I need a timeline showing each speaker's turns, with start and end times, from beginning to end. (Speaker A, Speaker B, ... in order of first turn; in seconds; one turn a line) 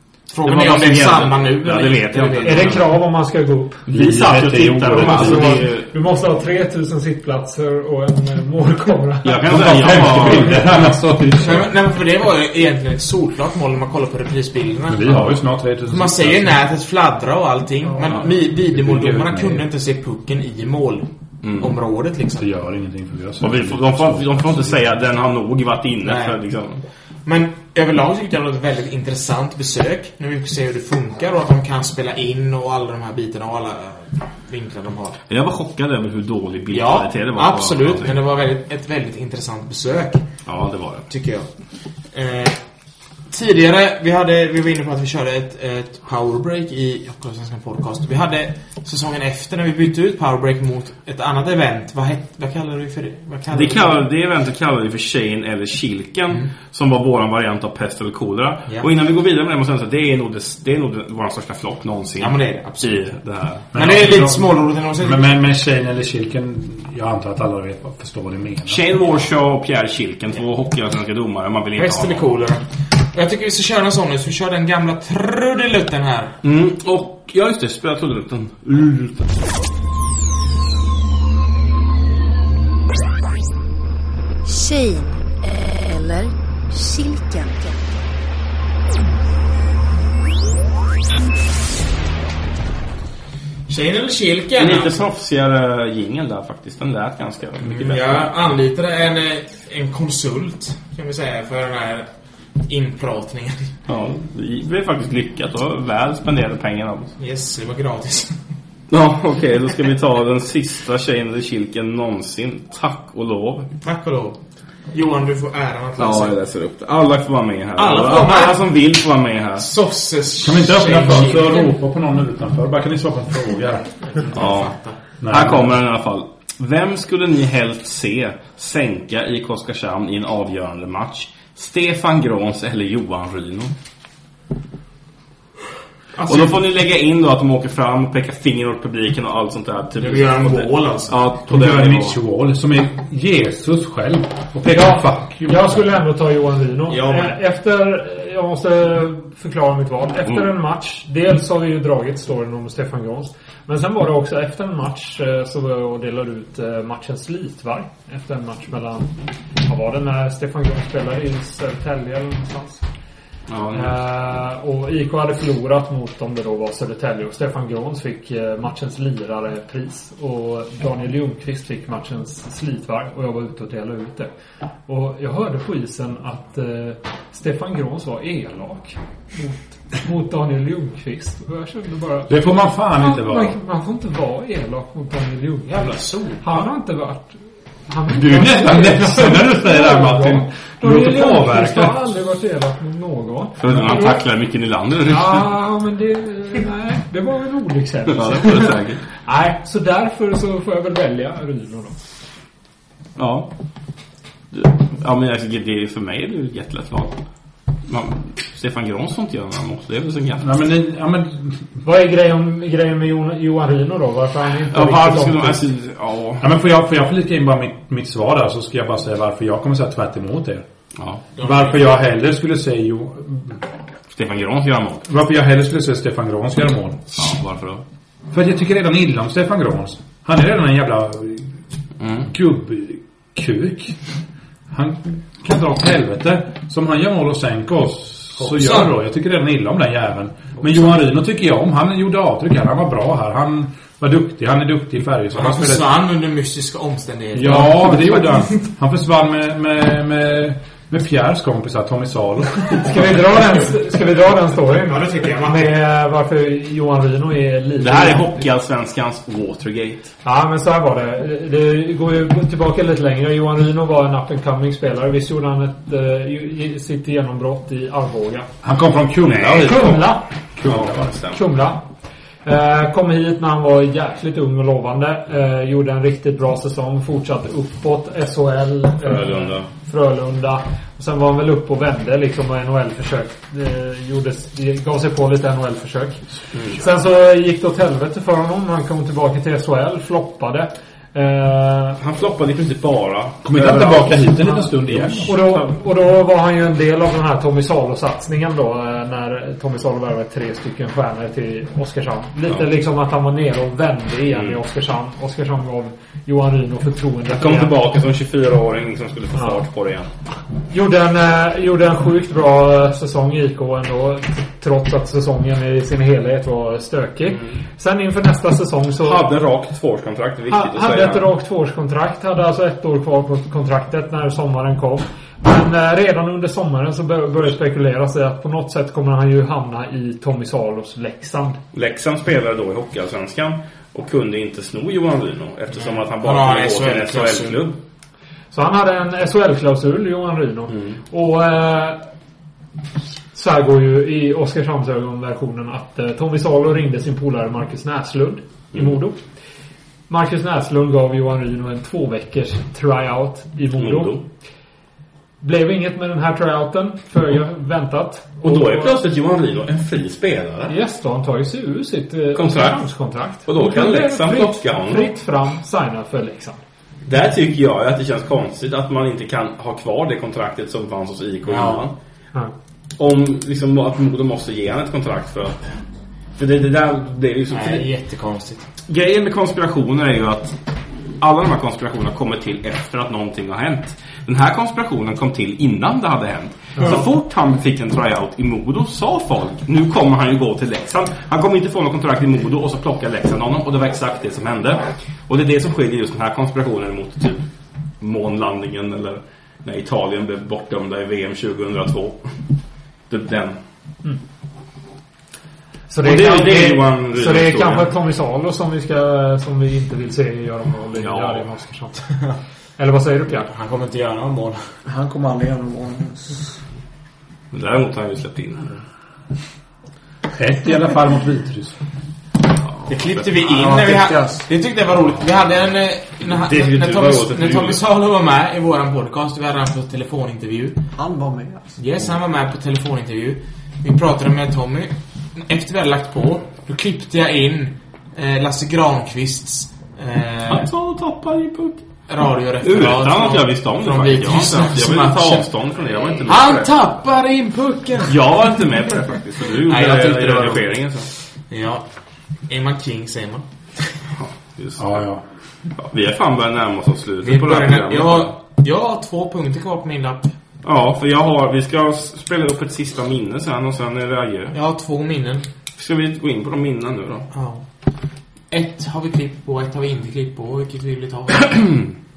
Speaker A: 0.3-3.0
Speaker B: 0.4-3.0
Speaker C: 2.4-3.9
Speaker B: 3.9-5.9
Speaker D: 3.9-5.6
Speaker C: 4.9-9.4
Speaker B: 9.2-10.8
Speaker D: 9.4-11.7
Speaker C: 10.1-10.8
Speaker A: 11.4-22.5
Speaker D: 14.9-16.6
Speaker D: 18.4-19.7
Speaker B: 21.4-21.8
Speaker D: 22.4-24.9
Speaker B: 23.4-26.8
Speaker A: 26.0-26.4
Speaker A: 27.2-35.2
Speaker B: 35.3-38.2
Speaker A: 36.7-40.2
Speaker B: 40.5-41.1
Speaker A: 41.1-41.5
Speaker A: 42.1-42.6
Speaker A: 43.3-54.1
Speaker B: 53.5-63.9
Speaker A: 62.2-63.1
Speaker A: 63.7-65.3
Speaker D: 63.7-68.8
Speaker B: 68.7-72.3
Speaker A: 71.7-76.4
Speaker B: 76.4-79.4
Speaker E: 84.5-87.8
Speaker A: 93.7-95.0
Speaker B: 94.6-98.3
Speaker A: 97.6-103.7
Speaker B: 103.9-107.1
Speaker A: 107.2-108.4
Speaker B: 108.9-113.7
Speaker A: 113.8-114.4
Speaker A: 114.9-116.4
Speaker B: 116.0-119.7
Speaker A: 117.8-118.7
Speaker A: 119.5-121.7
Speaker D: 120.4-124.0
Speaker A: 124.1-125.0
Speaker B: 124.3-124.7
Speaker D: 125.2-125.8
Speaker B: 125.2-133.7
Speaker A: 136.2-136.6
Speaker B: 136.2-142.2
Speaker A: 140.0-141.2
Speaker D: 141.5-145.9
Speaker C: 144.7-162.8
Speaker A: 146.9-147.4
Speaker B: 163.5-164.0
Speaker C: 163.7-174.3
Speaker C: 174.9-182.3
Speaker D: 182.3-183.6
Speaker C: 183.0-185.7
Speaker A: 185.7-186.7
Speaker C: 186.4-194.2
Speaker D: 188.1-191.9
Speaker B: 193.6-195.6
Speaker C: 195.1-201.9
Speaker B: 198.1-199.0
Speaker B: 203.2-203.5
Speaker B: 204.5-207.2
Speaker B: 207.9-210.5
Speaker D: 210.4-211.6
Speaker C: 211.8-215.6
Speaker B: 214.7-216.4
Speaker D: 216.4-220.7
Speaker B: 221.0-221.2
Speaker A: 221.4-221.8
Speaker D: 221.4-223.6
Speaker B: 224.1-225.1
Speaker D: 225.1-227.0
Speaker B: 227.2-227.8
Speaker D: 228.3-231.5
Speaker B: 232.0-232.3
Speaker D: 232.2-234.0
Speaker D: 234.7-245.9
Speaker A: 238.4-238.9
Speaker A: 245.3-248.6
Speaker D: 247.3-253.1
Speaker C: 252.8-258.4
Speaker A: 254.8-255.8
Speaker B: 257.8-260.1
Speaker C: 260.2-268.5
Speaker D: 268.6-270.0
Speaker B: 269.2-271.4
Speaker C: 269.6-270.2
Speaker D: 270.6-271.1
Speaker C: 271.3-271.8
Speaker C: 272.4-292.0
Speaker B: 279.0-279.7
Speaker B: 286.5-286.8
Speaker B: 292.0-295.6
Speaker D: 293.4-295.3
Speaker C: 295.3-307.7
Speaker B: 307.4-310.1
Speaker C: 310.7-319.2
Speaker B: 319.0-321.3
Speaker C: 320.5-331.6
Speaker B: 331.7-337.8
Speaker A: 335.7-337.7
Speaker C: 338.5-342.0
Speaker B: 340.7-341.0
Speaker C: 343.3-349.2
Speaker C: 350.1-354.2
Speaker B: 353.8-354.2
Speaker C: 355.4-359.0
Speaker B: 358.4-360.8
Speaker C: 360.7-366.6
Speaker B: 362.4-362.8
Speaker B: 363.4-365.1
Speaker B: 367.1-371.9
Speaker A: 371.4-371.9
Speaker B: 373.0-375.7
Speaker B: 376.4-377.9
Speaker A: 377.5-378.7
Speaker B: 378.9-380.6
Speaker B: 381.2-397.4
Speaker A: 386.8-387.1
Speaker B: 398.0-402.3
Speaker B: 403.1-403.6
Speaker C: 405.9-412.1
Speaker B: 406.0-407.9
Speaker B: 411.0-411.4
Speaker C: 412.8-413.5
Speaker A: 413.5-414.7
Speaker F: 414.9-416.5
Speaker B: 417.5-418.8
Speaker D: 420.3-421.8
Speaker B: 422.7-423.5
Speaker A: 422.9-430.8
Speaker F: 423.4-424.5
Speaker B: 426.2-427.8
Speaker F: 431.0-431.8
Speaker A: 431.8-440.7
Speaker B: 440.5-441.9
Speaker A: 442.1-445.5
Speaker B: 442.6-446.7
Speaker A: 446.0-448.2
Speaker B: 448.1-451.1
Speaker A: 449.6-450.8
Speaker A: 451.5-451.8
Speaker A: 452.5-453.5
Speaker B: 454.1-455.0
Speaker D: 454.8-455.2
Speaker B: 455.8-458.4
Speaker A: 457.2-460.3
Speaker B: 460.6-464.6
Speaker A: 464.5-465.5
Speaker B: 465.8-467.3
Speaker A: 467.3-467.6
Speaker A: 468.5-471.5
Speaker B: 471.3-471.9